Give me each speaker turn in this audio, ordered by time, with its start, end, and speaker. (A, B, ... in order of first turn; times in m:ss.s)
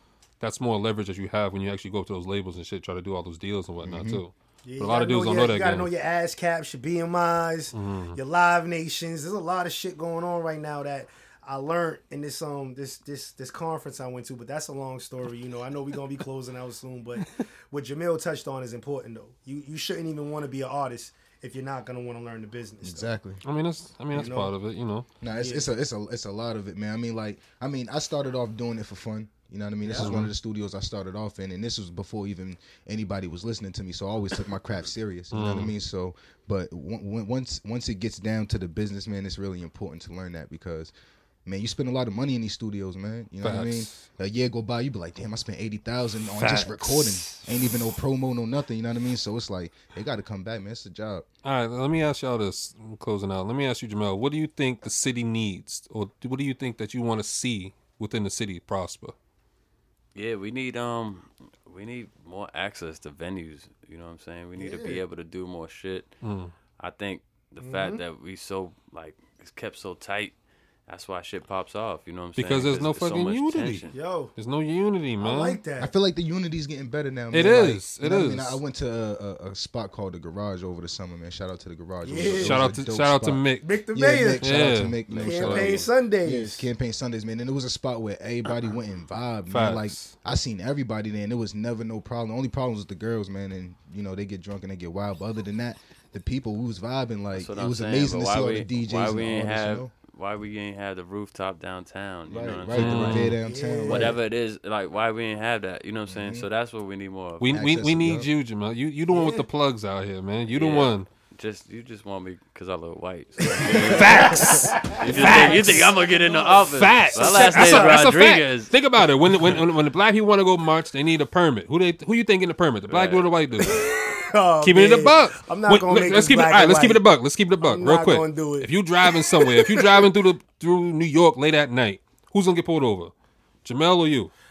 0:00.4-0:05.9 A
0:03.8-0:04.2 B
0:04.6-0:23.1 C
0:07.7-0:08.2 A
0:22.8-0:23.4 B
0:23.4-0:25.1 A
0:24.1-0:24.5 C
0:25.2-0:40.9 B
0:25.4-0:25.7 C
0:29.8-0:30.1 C
0:29.9-0:30.3 A
0:35.3-0:35.7 A
0:41.4-0:51.2 B
0:43.4-0:44.0 A
0:46.3-0:47.5 A
0:51.4-0:59.1 A
1:00.1-1:06.1 D
1:04.6-1:05.0 B
1:06.2-1:06.5 A
1:06.8-1:10.3 D
1:07.6-1:08.0 C
1:10.9-1:13.9 D
1:12.4-1:15.6 A
1:13.9-1:14.3 C
1:15.2-1:15.9 C
1:15.8-1:39.9 B
1:17.3-1:18.6 A
1:22.0-1:22.7 C
1:22.2-1:23.7 A
1:23.6-1:24.4 C
1:24.4-1:25.8 A
1:25.2-1:26.7 C
1:29.5-1:30.1 A
1:37.3-1:43.3 D
1:42.3-1:44.2 B
1:42.7-1:43.4 A
1:43.4-1:44.2 C
1:43.9-1:47.4 D
1:46.1-1:46.5 B
1:47.4-1:51.1 A
1:47.4-1:48.3 B
1:49.1-1:49.4 C
1:50.5-1:58.7 D
1:53.6-1:58.0 C
1:53.6-1:55.9 A
1:56.7-2:03.9 A
2:02.9-2:03.3 D
2:03.6-2:07.0 C
2:04.6-2:13.1 A
2:07.6-2:10.0 C
2:13.6-2:14.3 A